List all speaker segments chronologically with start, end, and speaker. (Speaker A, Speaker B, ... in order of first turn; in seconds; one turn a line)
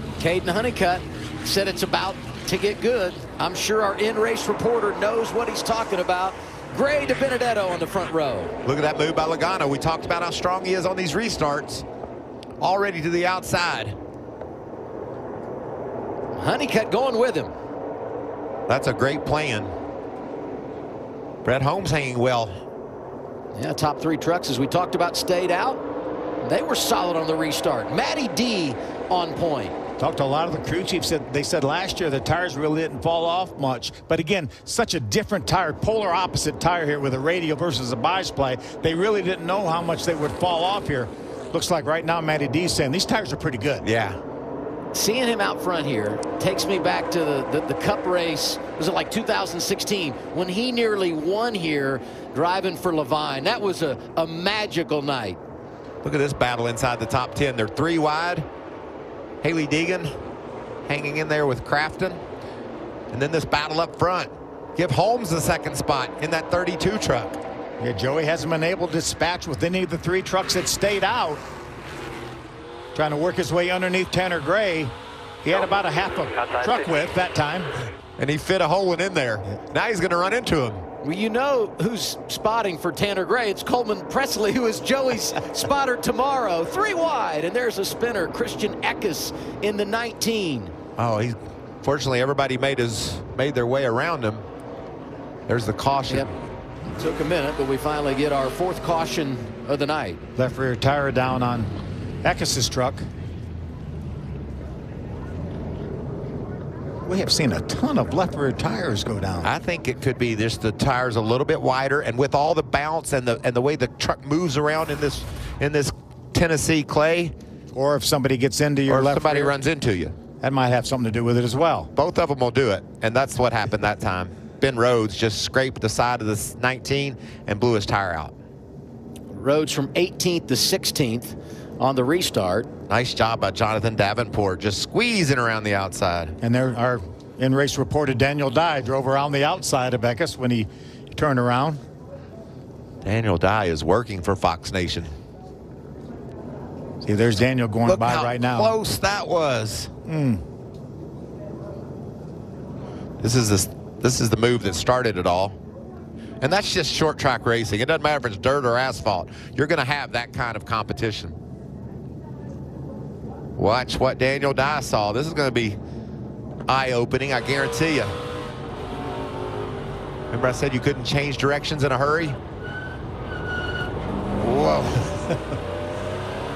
Speaker A: 0.2-8.5
Speaker B: 8.6-11.8
Speaker B: 12.6-14.0
Speaker A: 16.4-17.5
Speaker B: 18.7-19.7
Speaker B: 21.4-22.5
Speaker A: 23.5-25.8
Speaker A: 26.4-29.8
Speaker C: 30.0-43.8
Speaker B: 43.8-44.2
Speaker A: 44.9-55.4
Speaker B: 56.0-58.5
Speaker B: 59.4-60.1
Speaker B: 60.9-62.2
Speaker B: 63.1-67.4
Speaker C: 67.8-71.4
Speaker C: 72.9-77.7
Speaker B: 78.2-80.8
Speaker A: 81.0-90.7
Speaker B: 91.0-94.4
Speaker B: 95.5-96.3
Speaker A: 97.0-100.2
Speaker C: 100.3-101.7
Speaker C: 102.2-103.0
Speaker C: 107.0-109.5
Speaker B: 109.4-117.3
Speaker C: 117.7-119.5
Speaker B: 118.9-120.1
Speaker C: 120.4-121.9
Speaker B: 121.9-128.3
Speaker A: 129.3-132.7
Speaker B: 132.9-136.3
Speaker C: 136.4-141.8
Speaker B: 143.0-145.1
Speaker C: 147.0-148.7
Speaker B: 147.8-149.9
Speaker C: 150.1-150.4
Speaker B: 153.2-155.6
Speaker B: 156.4-161.3
Speaker B: 163.6-165.8
Speaker B: 166.7-168.1
Speaker B: 170.3-172.4
Speaker B: 174.4-175.3